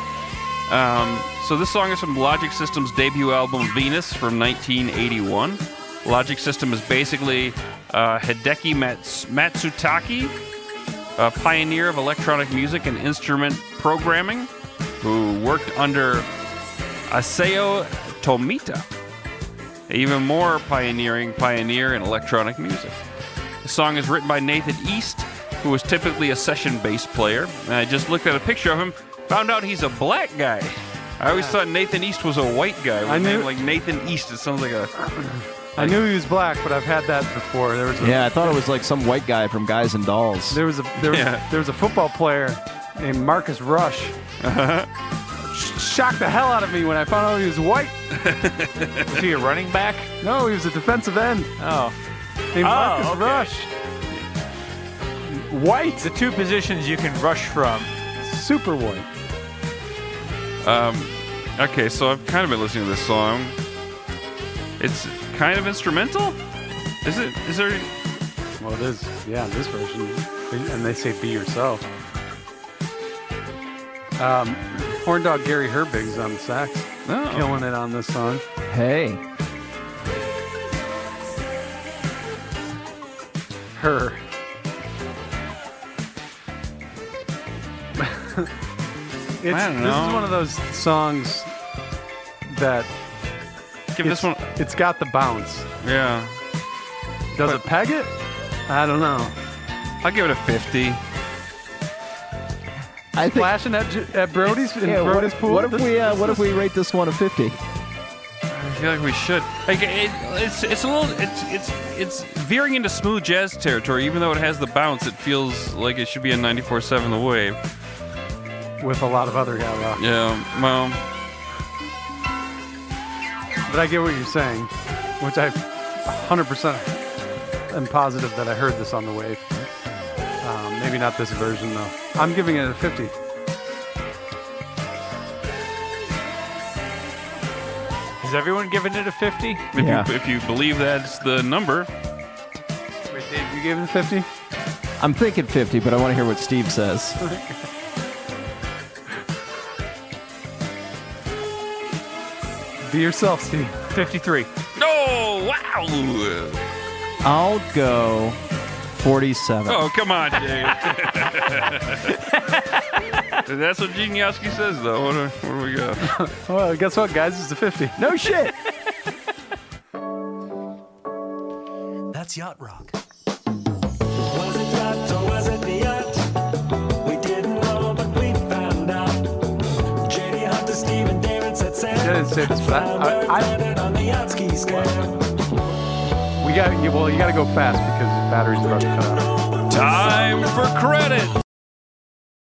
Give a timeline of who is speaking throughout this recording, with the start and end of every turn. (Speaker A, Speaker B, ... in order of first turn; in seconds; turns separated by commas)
Speaker A: 0.7-10.3, Speaker A: 11.2-16.3, Speaker A: 17.1-18.9, Speaker A: 19.9-23.0, Speaker A: 23.6-34.9, Speaker B: 33.0-33.5, Speaker B: 35.0-38.6, Speaker C: 38.0-40.6, Speaker B: 40.5-44.1, Speaker A: 41.0-41.4, Speaker A: 44.4-44.9, Speaker B: 45.5-47.9, Speaker A: 48.1-49.3, Speaker D: 49.1-50.1, Speaker B: 50.2-51.5, Speaker D: 51.6-51.9, Speaker B: 52.5-53.7, Speaker D: 52.6-53.5, Speaker B: 55.2-56.1, Speaker D: 56.0-57.9, Speaker B: 58.2-59.1, Speaker A: 60.6-63.5, Speaker A: 64.8-66.4, Speaker A: 67.0-67.9, Speaker B: 68.6-71.8, Speaker B: 74.2-78.4, Speaker A: 77.0-77.5, Speaker C: 78.7-79.2, Speaker B: 83.7-84.2, Speaker B: 88.0-88.5, Speaker B: 89.4-91.5, Speaker A: 89.5-90.4, Speaker B: 92.5-92.9, Speaker A: 93.9-94.5, Speaker B: 94.0-95.7, Speaker A: 95.8-96.3, Speaker B: 97.3-98.1, Speaker B: 98.7-99.4, Speaker A: 100.0-101.0, Speaker C: 103.1-103.6, Speaker B: 103.3-106.5, Speaker C: 104.5-107.6, Speaker A: 108.5-117.6, Speaker B: 118.8-120.0, Speaker A: 120.0-121.0, Speaker B: 123.7-127.0, Speaker B: 127.7-129.5, Speaker B: 130.4-133.1, Speaker D: 138.2-139.6, Speaker A: 139.7-141.9, Speaker C: 139.7-140.1, Speaker B: 143.1-144.3, Speaker C: 145.0-147.2, Speaker B: 147.2-147.6, Speaker B: 152.8-153.9, Speaker D: 153.9-154.5, Speaker A: 154.8-156.6, Speaker C: 157.2-158.4, Speaker C: 158.9-159.8, Speaker A: 159.7-162.2, Speaker D: 162.3-162.8, Speaker A: 163.3-166.2, Speaker B: 166.0-168.0, Speaker C: 168.0-168.6, Speaker E: 172.1-173.0, Speaker E: 174.1-185.4, Speaker B: 182.0-183.6, Speaker B: 186.4-189.3, Speaker E: 189.4-190.5, Speaker A: 189.7-191.4